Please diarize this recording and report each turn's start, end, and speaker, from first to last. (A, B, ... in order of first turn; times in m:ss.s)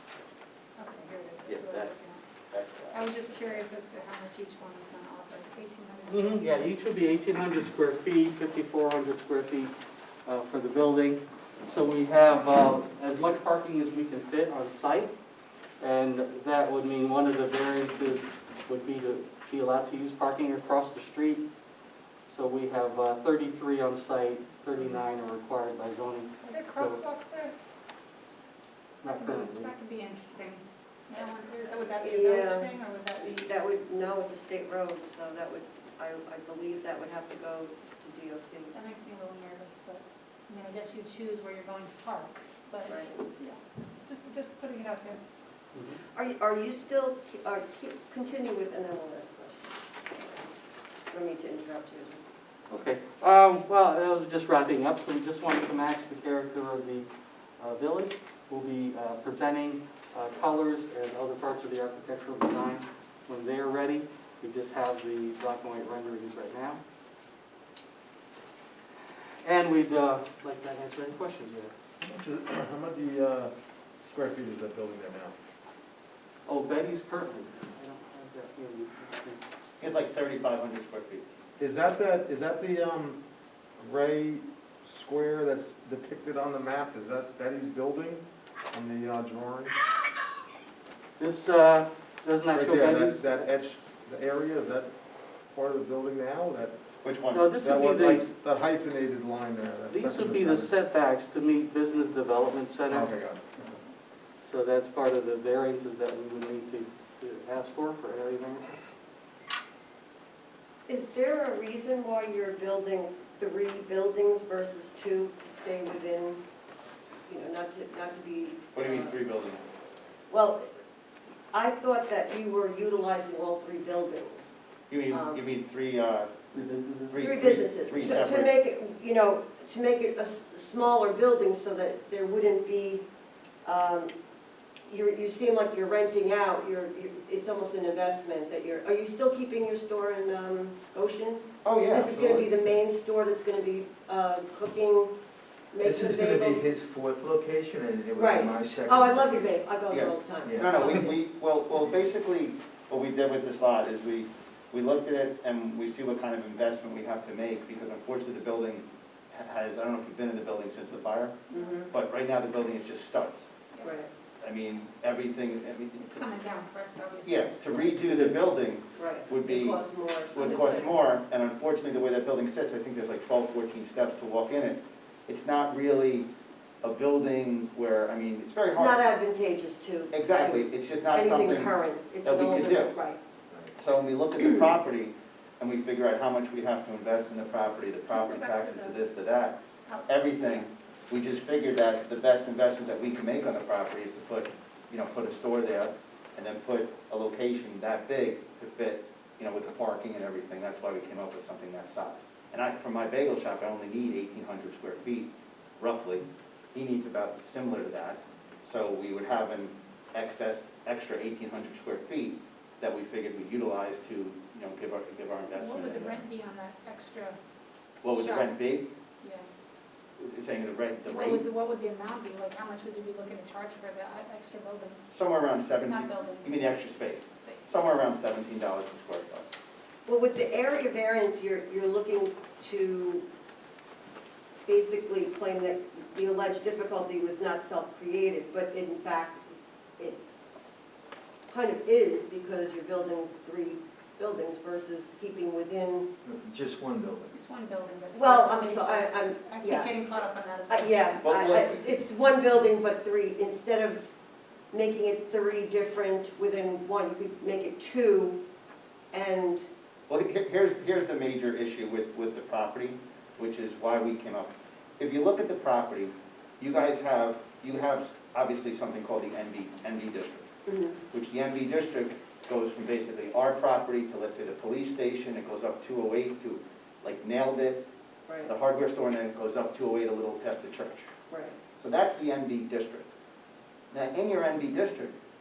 0:00.8-0:02.2 A
0:01.4-0:02.0 B
0:02.5-0:03.2 B
0:02.9-0:06.6 A
0:06.1-0:09.7 C
0:10.2-0:15.1 C
0:15.8-0:21.4 C
0:22.3-0:27.0 C
0:26.4-0:27.5 A
0:29.0-0:29.7 C
0:29.1-0:33.5 A
0:32.0-0:38.8 D
0:38.7-0:45.2 A
0:42.8-0:43.2 D
0:45.7-0:46.0 C
0:46.1-0:49.7 D
0:51.1-0:52.2 D
0:52.7-0:57.1 C
0:57.6-1:06.8 C
1:09.4-1:11.7 C
1:12.0-1:13.5 E
1:14.0-1:15.3 E
1:16.4-1:19.4 C
1:19.8-1:21.2 B
1:21.6-1:23.2 E
1:23.8-1:29.7 E
1:31.2-1:33.5 C
1:32.5-1:34.9 E
1:35.5-1:36.8 E
1:37.0-1:37.6 B
1:37.3-1:38.2 C
1:37.6-1:40.7 E
1:39.9-1:43.1 C
1:42.9-1:43.8 E
1:44.4-1:48.7 C
1:50.9-1:56.4 D
1:57.3-1:59.2 D
1:58.7-1:59.6 B
2:00.3-2:00.7 D
2:01.5-2:04.5 D
2:04.9-2:06.5 B
2:05.1-2:05.4 D
2:06.5-2:07.4 C
2:07.1-2:08.5 B
2:07.2-2:13.0 D
2:13.6-2:14.1 D
2:14.9-2:25.1 D
2:21.6-2:22.5 B
2:25.7-2:26.6 D
2:25.8-2:29.6 F
2:28.1-2:31.2 D
2:29.9-2:43.6 B
2:30.4-2:31.0 F
2:41.5-2:41.8 A
2:41.5-2:41.9 D
2:43.7-2:44.0 A
2:43.8-2:44.1 D
2:44.4-2:46.4 B
2:46.0-2:48.6 A
2:47.2-2:56.3 B
2:48.9-2:50.7 D
2:50.4-2:50.9 A
2:56.8-2:59.0 B
2:58.7-3:03.2 D
3:00.1-3:03.0 B
3:03.8-3:36.2 B
3:08.1-3:09.0 A
3:09.8-3:10.7 A
3:35.5-3:37.4 A
3:38.0-3:38.9 B
3:38.1-3:38.6 A
3:39.2-3:39.5 A
3:40.2-3:41.5 B
3:41.1-3:45.0 A
3:45.1-3:49.5 B
3:45.8-3:46.8 A
3:47.3-3:47.6 A
3:50.0-3:53.2 D
3:54.6-4:00.2 D
4:01.5-4:06.1 D
4:06.2-4:07.4 F
4:07.3-4:11.3 A
4:08.1-4:09.9 D
4:10.7-4:14.1 D
4:11.2-4:11.8 B
4:14.7-4:18.4 D
4:19.1-4:19.6 D
4:20.1-4:30.5 B
4:30.6-4:31.0 D
4:31.0-4:37.8 B
4:38.3-4:38.5 D
4:38.4-4:41.1 B
4:41.3-4:41.6 D
4:41.8-4:43.1 B
4:43.9-4:45.2 B